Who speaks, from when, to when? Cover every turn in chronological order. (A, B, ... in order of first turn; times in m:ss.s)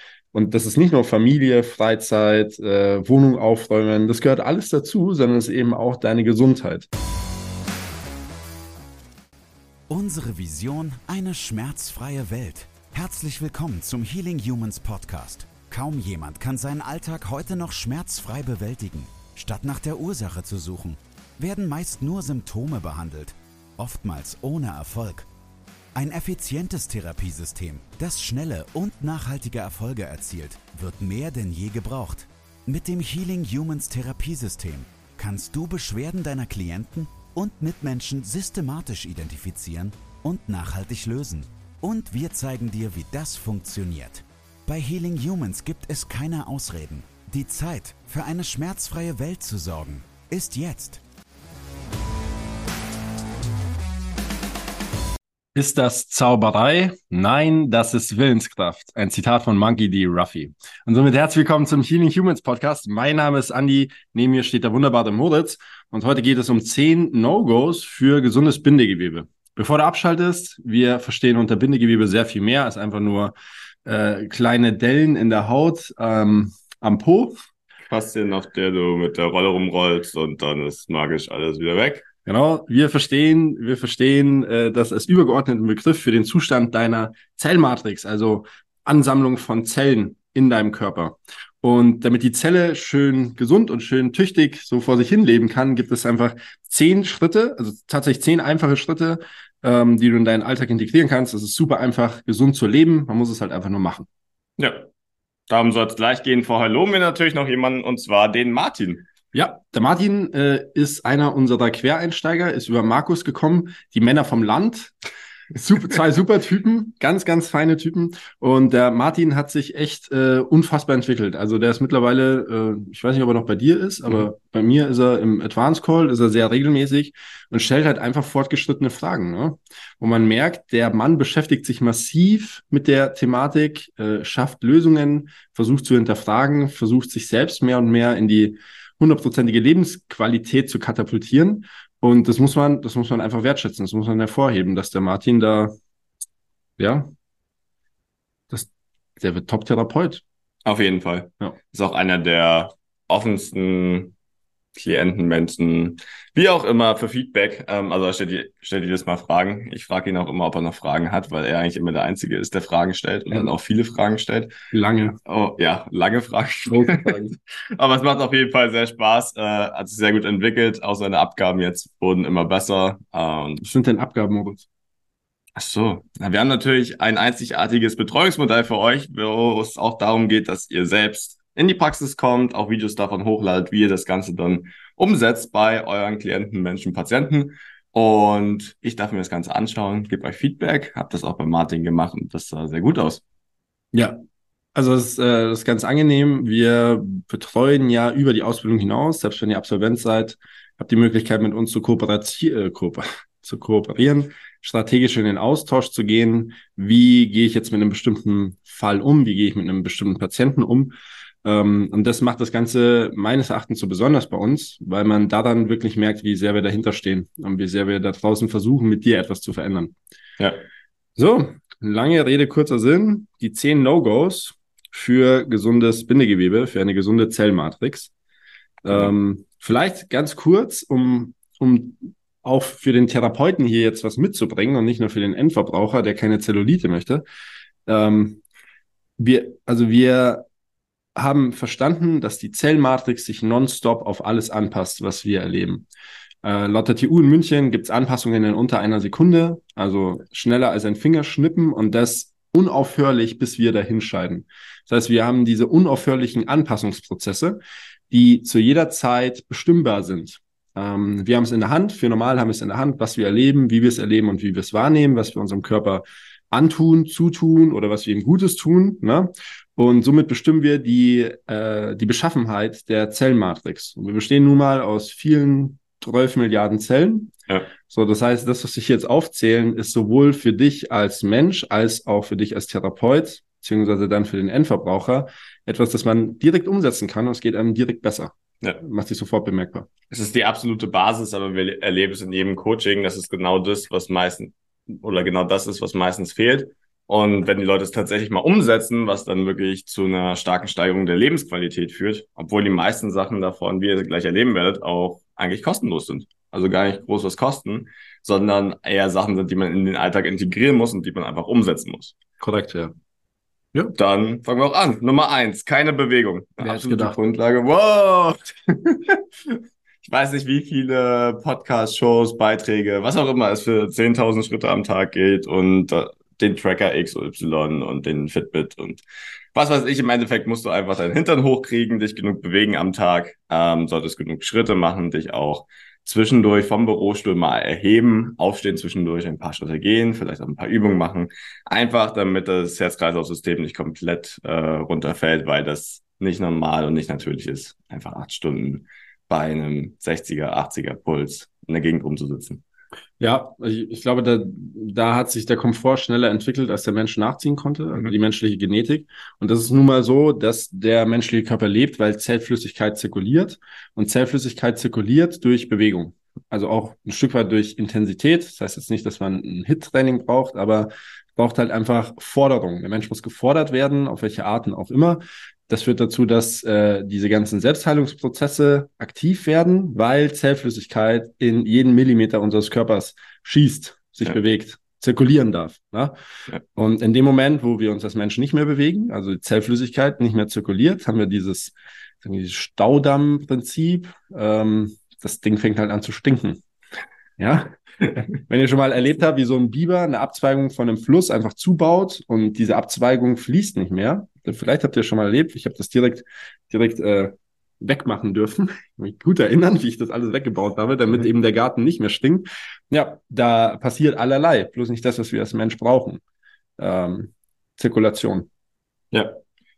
0:00.3-0:06.9 A
0:09.9-0:25.3 B
0:26.0-0:51.0 B
0:55.5-1:17.4 A
1:17.9-1:22.1 C
1:22.2-1:44.1 A
1:44.6-1:44.9 C
1:45.5-1:49.0 C
1:49.3-1:54.9 A
1:55.5-2:25.7 A
2:26.8-2:27.1 A
2:28.5-2:30.2 A
2:30.6-2:34.1 C
2:34.7-2:44.5 C
2:44.7-2:45.2 A
2:45.2-2:47.2 C
2:46.7-2:47.3 A
2:47.7-2:53.6 C
2:53.6-2:54.6 A
2:55.6-3:13.2 C
3:14.7-3:39.9 A
3:41.2-3:48.1 A
3:48.8-3:57.2 A
3:57.9-3:58.4 A
3:59.2-4:00.4 A
4:01.2-4:05.8 A
4:06.4-4:37.3 A
4:37.9-4:49.9 A
4:50.1-5:12.1 C
5:12.4-5:12.9 A
5:14.0-5:29.0 C
5:16.6-5:17.2 A
5:29.5-5:52.6 C
5:53.2-6:26.1 A
6:26.7-6:36.6 A
6:37.4-6:56.2 A
6:56.8-6:58.5 A
6:59.1-6:59.4 C